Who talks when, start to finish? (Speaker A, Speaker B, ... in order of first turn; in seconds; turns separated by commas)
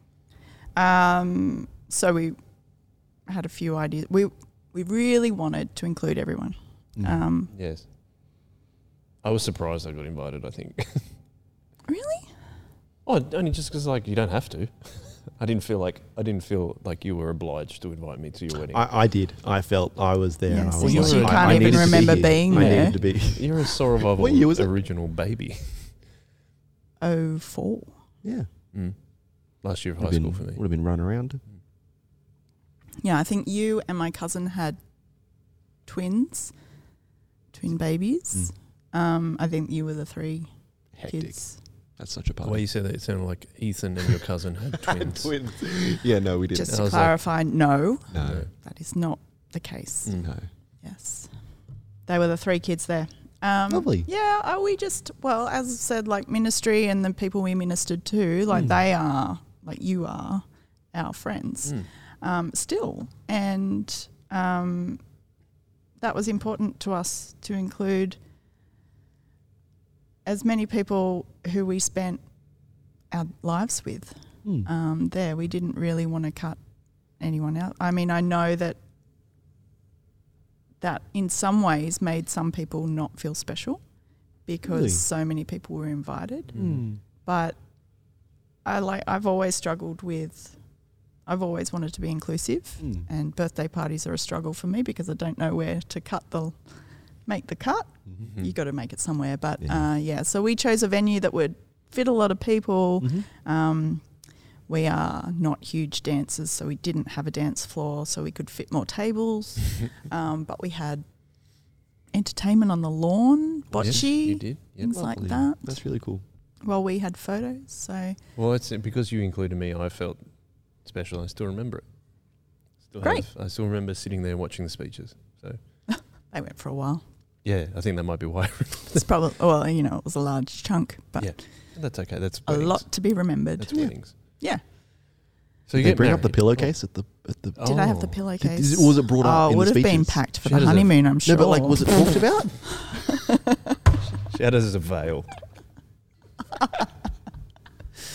Speaker A: 0.8-2.4, Speaker A: 3.3-7.5, Speaker B: 7.0-7.2, Speaker C: 7.5-7.9, Speaker C: 9.2-11.1, Speaker A: 11.9-12.3, Speaker C: 13.1-18.8, Speaker B: 18.7-24.7, Speaker A: 20.5-23.0, Speaker C: 20.8-26.0, Speaker A: 27.0-27.9, Speaker B: 28.2-28.5, Speaker C: 29.6-30.6, Speaker B: 30.0-31.4, Speaker A: 33.0-34.8, Speaker A: 35.9-36.5, Speaker A: 37.5-40.5, Speaker B: 41.0-41.4, Speaker A: 41.0-41.6, Speaker B: 42.0-42.6, Speaker C: 42.4-45.3, Speaker B: 44.9-47.1, Speaker A: 46.5-50.2, Speaker C: 46.7-47.1, Speaker B: 48.1-48.5, Speaker C: 48.2-48.5, Speaker C: 50.0-50.3, Speaker B: 50.2-50.5, Speaker A: 50.8-51.3, Speaker A: 52.1-65.0, Speaker B: 53.7-54.1, Speaker A: 66.0-68.2, Speaker A: 70.2-72.2, Speaker A: 73.1-76.6, Speaker A: 77.2-78.8, Speaker A: 80.8-83.8, Speaker A: 84.5-86.6, Speaker B: 84.7-85.0, Speaker C: 86.5-86.8, Speaker B: 86.5-87.0, Speaker A: 87.2-87.6, Speaker A: 88.7-90.6, Speaker A: 91.3-96.6, Speaker B: 92.8-93.1, Speaker A: 97.3-104.0, Speaker C: 98.2-98.5, Speaker B: 99.6-99.9, Speaker B: 103.0-103.3, Speaker A: 104.7-111.0, Speaker A: 112.1-115.8, Speaker C: 113.8-114.9, Speaker B: 114.9-116.2, Speaker A: 116.6-118.2, Speaker C: 118.4-121.9, Speaker C: 122.8-125.6, Speaker A: 123.0-123.3, Speaker A: 125.9-127.0, Speaker C: 127.5-129.1, Speaker A: 128.9-131.4, Speaker C: 131.2-132.8, Speaker A: 132.5-134.6, Speaker C: 133.6-134.2, Speaker C: 135.7-136.7, Speaker B: 135.8-137.7, Speaker C: 137.6-138.2, Speaker A: 137.6-142.2, Speaker B: 138.4-140.2, Speaker C: 140.4-140.9, Speaker B: 141.2-143.2, Speaker A: 142.7-143.8, Speaker C: 144.3-145.4